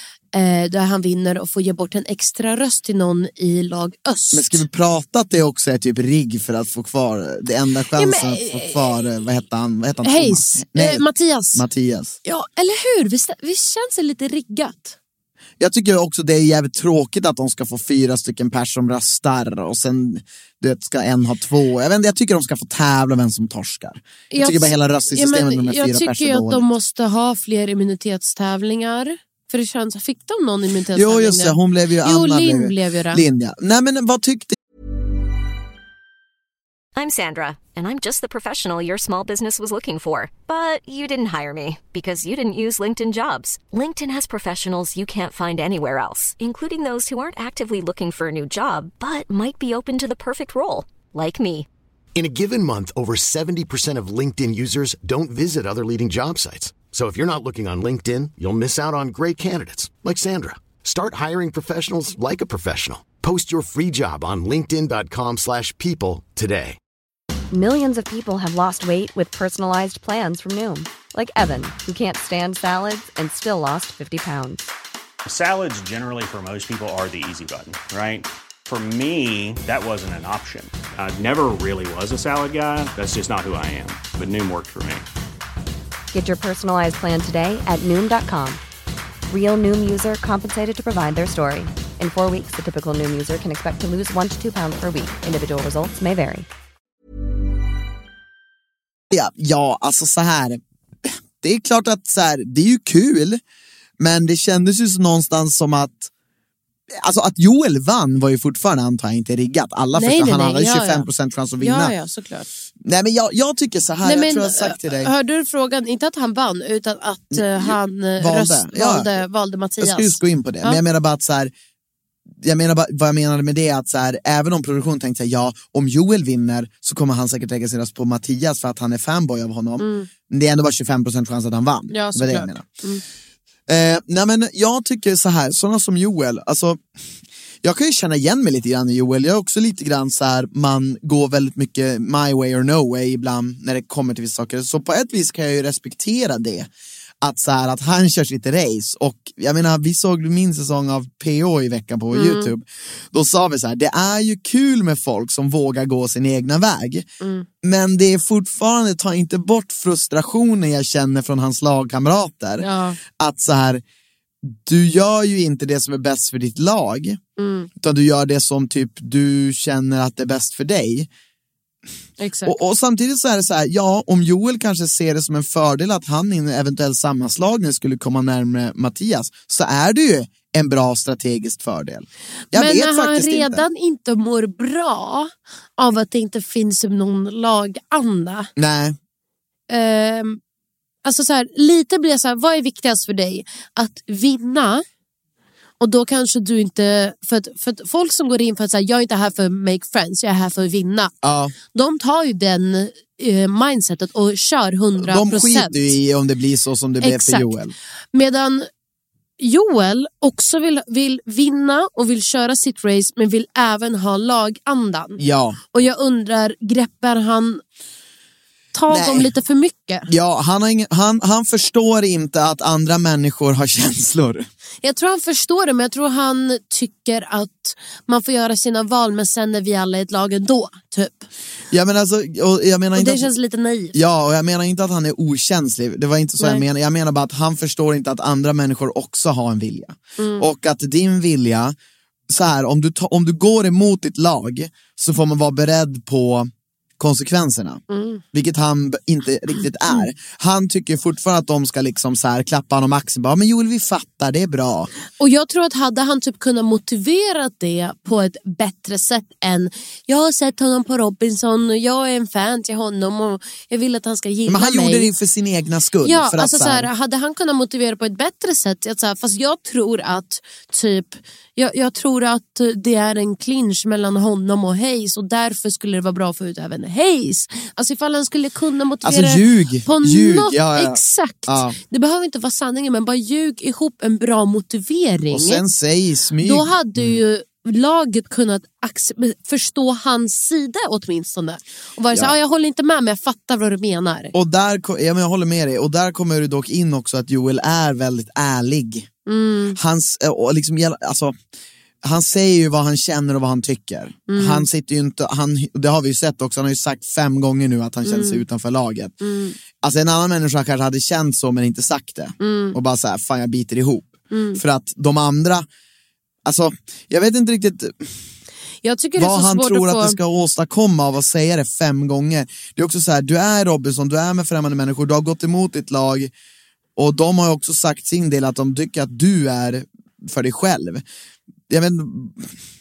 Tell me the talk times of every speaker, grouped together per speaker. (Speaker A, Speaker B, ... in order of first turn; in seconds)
Speaker A: 0.3-4.7, 8.0-8.9, 10.0-11.7, 12.2-15.0, 24.3-33.2, 109.9-111.1, 111.6-112.5, 114.0-120.8, 129.8-130.1, 131.9-133.0, 152.1-152.5, 157.2-157.5, 162.6-163.0, 167.4-167.7, 172.2-172.6, 182.5-188.5, 189.7-190.4, 191.1-194.8, 195.8-201.1, 201.7-206.0, 207.0-207.6, 208.1-208.7, 209.4-215.2, 215.7-217.6, 218.7-220.1, 224.8-231.3, 233.0-234.0, 240.2-240.5, 247.9-248.2, 255.2-265.1, 266.0-285.6, 286.4-294.3, 299.3-299.8, 304.3-304.7, 308.1-308.4, 309.2-309.6, 312.4-312.8, 314.3-314.6, 318.8-320.2
Speaker B: 4.3-12.2, 15.6-26.7, 30.9-34.6, 99.1-100.6, 101.4-103.4, 104.0-106.1, 106.9-112.0, 112.8-115.1, 117.3-119.2, 119.8-121.5, 122.4-132.7, 133.7-136.8, 137.6-146.7, 147.2-157.1, 157.6-163.8, 164.4-167.2, 167.8-171.1, 172.4-183.6, 188.6-189.0, 201.2-201.5, 205.0-207.7, 215.2-215.6, 218.9-219.3, 220.1-224.5, 231.7-233.3, 233.9-241.8, 242.3-247.8, 248.3-254.9, 264.5-266.9, 279.0-281.8, 285.3-287.2, 294.3-299.1, 299.8-301.4, 302.0-309.1, 309.8-315.7, 316.4-318.1, 319.2-326.3, 327.0-331.0, 331.7-332.5
Speaker C: 37.0-51.7
Speaker D: 52.1-66.8
Speaker E: 67.5-74.7, 86.1-88.6, 89.3-96.5
Speaker F: 75.2-85.1